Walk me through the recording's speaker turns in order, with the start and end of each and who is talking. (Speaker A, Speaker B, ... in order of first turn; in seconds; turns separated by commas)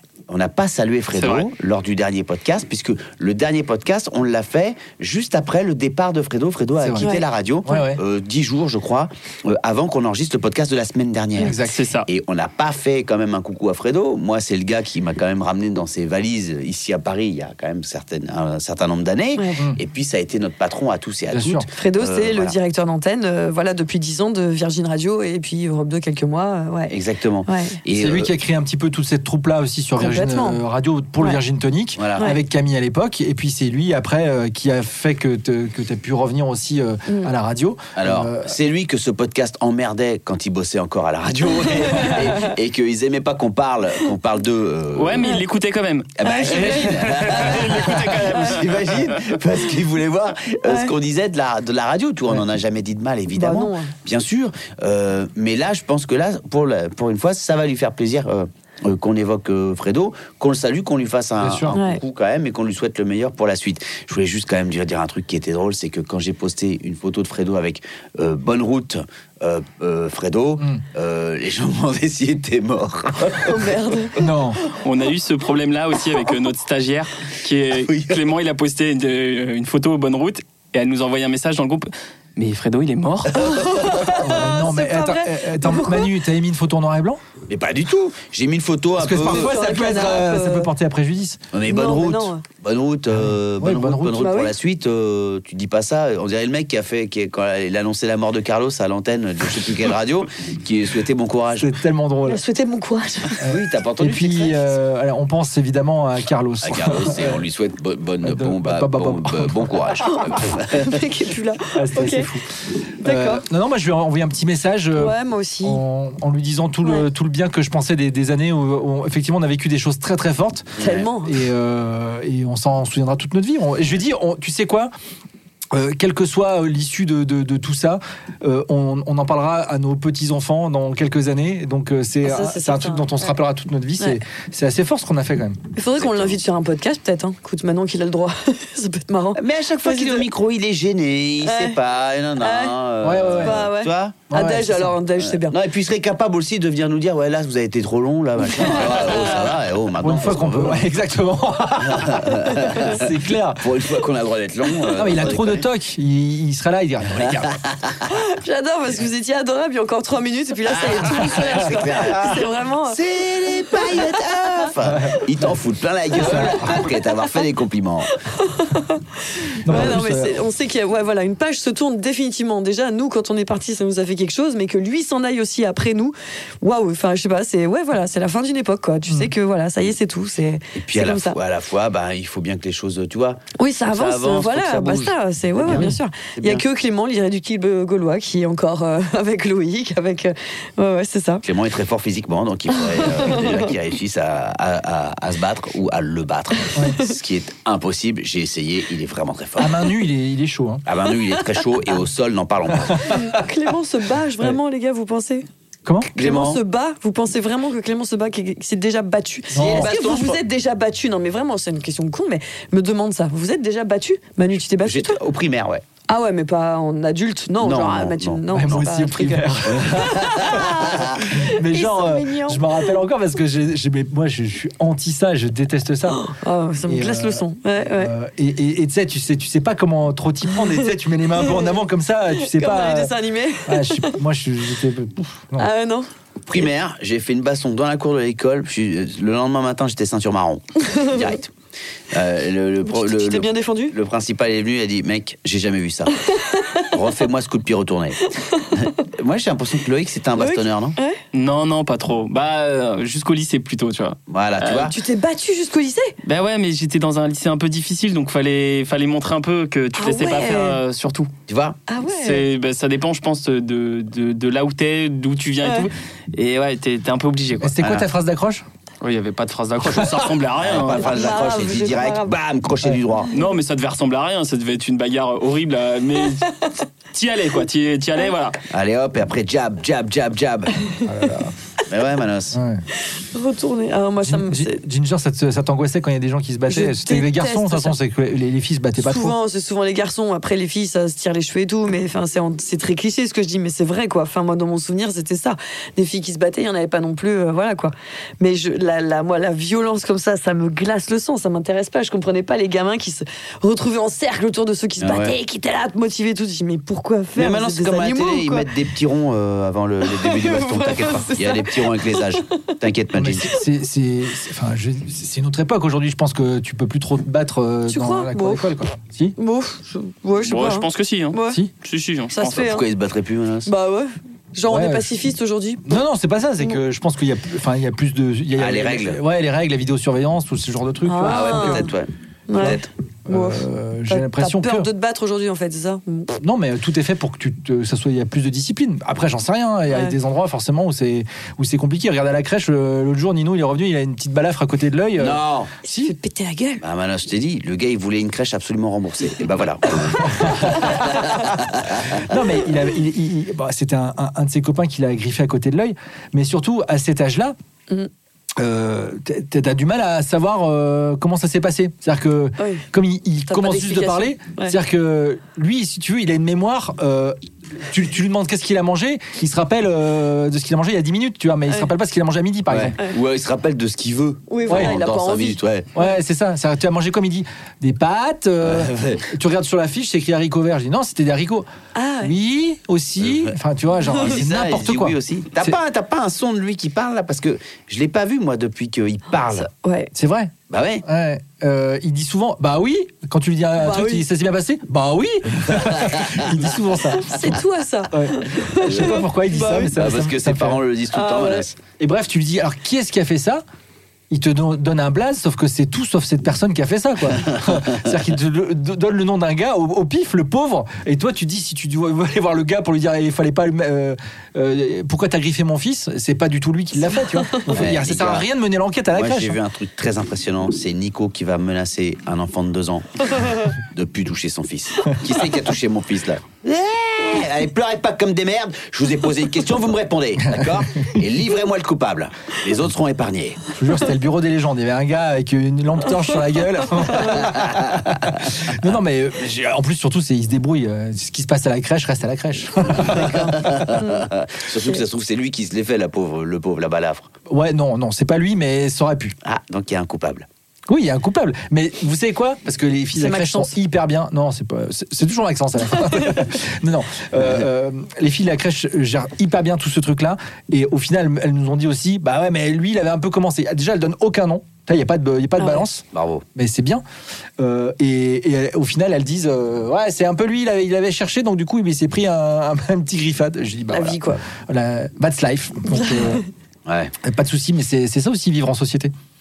Speaker A: 0.3-22.6, Speaker B: 1.1-1.5, Speaker C: 6.8-7.1, Speaker D: 7.0-7.8, Speaker C: 7.7-8.0, Speaker C: 11.4-11.8, Speaker B: 11.5-12.1, Speaker C: 21.3-21.7, Speaker D: 21.8-26.9, Speaker A: 26.9-28.3, Speaker D: 27.5-27.8, Speaker C: 27.9-38.5, Speaker D: 30.0-30.6, Speaker A: 32.0-32.3, Speaker D: 37.1-37.3, Speaker A: 38.0-45.4, Speaker D: 41.8-42.4, Speaker B: 44.9-49.3, Speaker A: 46.2-73.8, Speaker D: 46.2-48.6, Speaker D: 50.6-50.9, Speaker D: 53.3-53.9, Speaker C: 61.4-61.8, Speaker D: 61.7-62.0, Speaker D: 73.4-74.2, Speaker C: 74.2-74.6, Speaker B: 74.8-83.5, Speaker A: 77.8-78.2, Speaker D: 83.3-86.1, Speaker A: 83.4-83.9, Speaker C: 84.1-87.2, Speaker A: 87.5-89.6, Speaker C: 89.0-91.4, Speaker D: 89.2-90.7, Speaker A: 91.5-101.7, Speaker D: 91.7-92.5, Speaker C: 93.1-94.3, Speaker D: 94.2-94.5, Speaker C: 101.5-102.4, Speaker D: 102.3-103.4, Speaker C: 103.4-107.4, Speaker A: 103.4-104.8, Speaker A: 106.6-111.0, Speaker C: 108.2-110.0, Speaker D: 110.0-112.3, Speaker C: 111.7-112.5, Speaker C: 113.0-124.9, Speaker D: 113.0-113.4, Speaker D: 115.0-115.8, Speaker A: 120.8-121.1, Speaker D: 120.8-121.4, Speaker C: 125.7-135.6, Speaker D: 132.2-133.4, Speaker D: 135.8-140.3, Speaker A: 136.0-136.4, Speaker A: 139.4-144.2, Speaker D: 141.4-141.8, Speaker D: 142.4-142.8, Speaker C: 143.0-143.7, Speaker D: 143.3-145.6, Speaker C: 144.3-144.9, Speaker A: 145.2-150.9, Speaker D: 148.4-149.6, Speaker C: 150.0-153.8, Speaker A: 151.8-155.6, Speaker C: 154.9-157.6, Speaker A: 157.1-158.0, Speaker D: 158.1-164.3, Speaker A: 160.7-168.1, Speaker C: 164.8-165.2, Speaker C: 166.2-166.8, Speaker D: 166.2-166.9, Speaker D: 168.2-181.4, Speaker C: 169.6-170.4, Speaker A: 180.8-186.6, Speaker D: 183.6-191.4, Speaker C: 185.7-185.9, Speaker A: 191.4-199.8, Speaker D: 192.9-193.7, Speaker C: 196.8-197.0, Speaker C: 199.6-200.8, Speaker A: 200.8-203.2, Speaker D: 203.0-205.5, Speaker C: 205.8-206.1, Speaker A: 206.1-206.6, Speaker D: 206.2-215.2, Speaker C: 209.5-209.9, Speaker A: 209.6-210.4, Speaker A: 214.8-215.8, Speaker D: 216.1-222.9, Speaker A: 217.6-218.8, Speaker C: 218.5-226.2, Speaker A: 219.7-221.2, Speaker D: 226.1-228.1, Speaker C: 226.9-233.2, Speaker D: 231.4-231.7, Speaker D: 232.3-234.2, Speaker C: 233.7-235.7, Speaker D: 235.6-236.1, Speaker A: 236.5-241.5, Speaker D: 240.8-241.3, Speaker A: 242.1-246.3, Speaker D: 242.9-244.0, Speaker D: 246.3-246.9, Speaker A: 246.9-251.0, Speaker D: 248.4-248.9, Speaker D: 250.4-251.2, Speaker B: 251.3-254.9, Speaker A: 254.3-255.0, Speaker D: 254.8-256.1, Speaker B: 256.2-261.3, Speaker D: 260.0-260.8, Speaker A: 261.5-261.8, Speaker D: 261.9-262.4, Speaker B: 262.1-268.0, Speaker C: 267.6-268.6, Speaker B: 269.0-271.4, Speaker A: 270.6-273.3, Speaker D: 270.9-272.4, Speaker B: 273.3-278.6, Speaker A: 278.7-280.9, Speaker C: 281.1-281.5, Speaker A: 281.9-282.6, Speaker C: 282.5-282.8, Speaker D: 283.1-284.8, Speaker C: 284.2-289.4, Speaker D: 286.7-288.0, Speaker D: 289.0-308.7, Speaker A: 305.0-305.4, Speaker A: 307.4-313.6, Speaker D: 310.0-312.4, Speaker C: 313.1-319.4, Speaker D: 317.9-318.7, Speaker D: 319.4-321.6, Speaker B: 320.4-322.7, Speaker D: 322.3-322.9, Speaker A: 322.4-323.7, Speaker D: 323.7-325.9, Speaker C: 324.7-325.1, Speaker C: 325.9-331.9, Speaker A: 328.6-329.2, Speaker D: 331.1-331.9, Speaker A: 331.2-332.8, Speaker D: 332.5-336.4, Speaker C: 332.6-334.9, Speaker C: 336.4-346.1, Speaker D: 339.9-340.2, Speaker A: 345.2-345.7, Speaker D: 345.9-346.8, Speaker A: 346.8-352.2, Speaker C: 350.3-351.1, Speaker C: 352.1-357.6, Speaker C: 358.6-373.0, Speaker D: 362.6-362.9, Speaker D: 363.5-364.8, Speaker A: 372.7-375.9, Speaker D: 374.5-375.6, Speaker C: 374.7-375.0, Speaker C: 375.9-381.7, Speaker A: 378.6-379.2, Speaker D: 381.9-382.3, Speaker C: 382.2-385.8, Speaker A: 383.2-383.6, Speaker A: 384.1-389.7, Speaker D: 389.6-390.1, Speaker C: 390.1-397.6, Speaker A: 390.7-391.1, Speaker D: 393.8-394.2, Speaker A: 395.8-396.5, Speaker D: 397.1-400.0, Speaker C: 398.1-400.8, Speaker A: 398.8-399.2, Speaker A: 399.8-401.8, Speaker D: 401.1-401.7, Speaker C: 402.0-403.6, Speaker C: 404.3-419.6, Speaker A: 407.4-407.8, Speaker D: 417.1-417.7, Speaker A: 417.7-418.5, Speaker A: 419.1-433.7, Speaker C: 430.4-430.8, Speaker C: 433.8-443.9, Speaker D: 437.0-437.4, Speaker A: 437.4-438.1, Speaker A: 442.9-447.3, Speaker D: 443.1-444.2, Speaker C: 447.5-449.4, Speaker A: 449.4-450.5, Speaker C: 450.9-467.0, Speaker D: 453.2-453.7, Speaker D: 465.6-465.8, Speaker A: 466.1-466.4, Speaker C: 467.6-476.4, Speaker D: 473.9-474.4, Speaker D: 475.9-476.4, Speaker A: 476.9-477.1, Speaker C: 477.2-479.1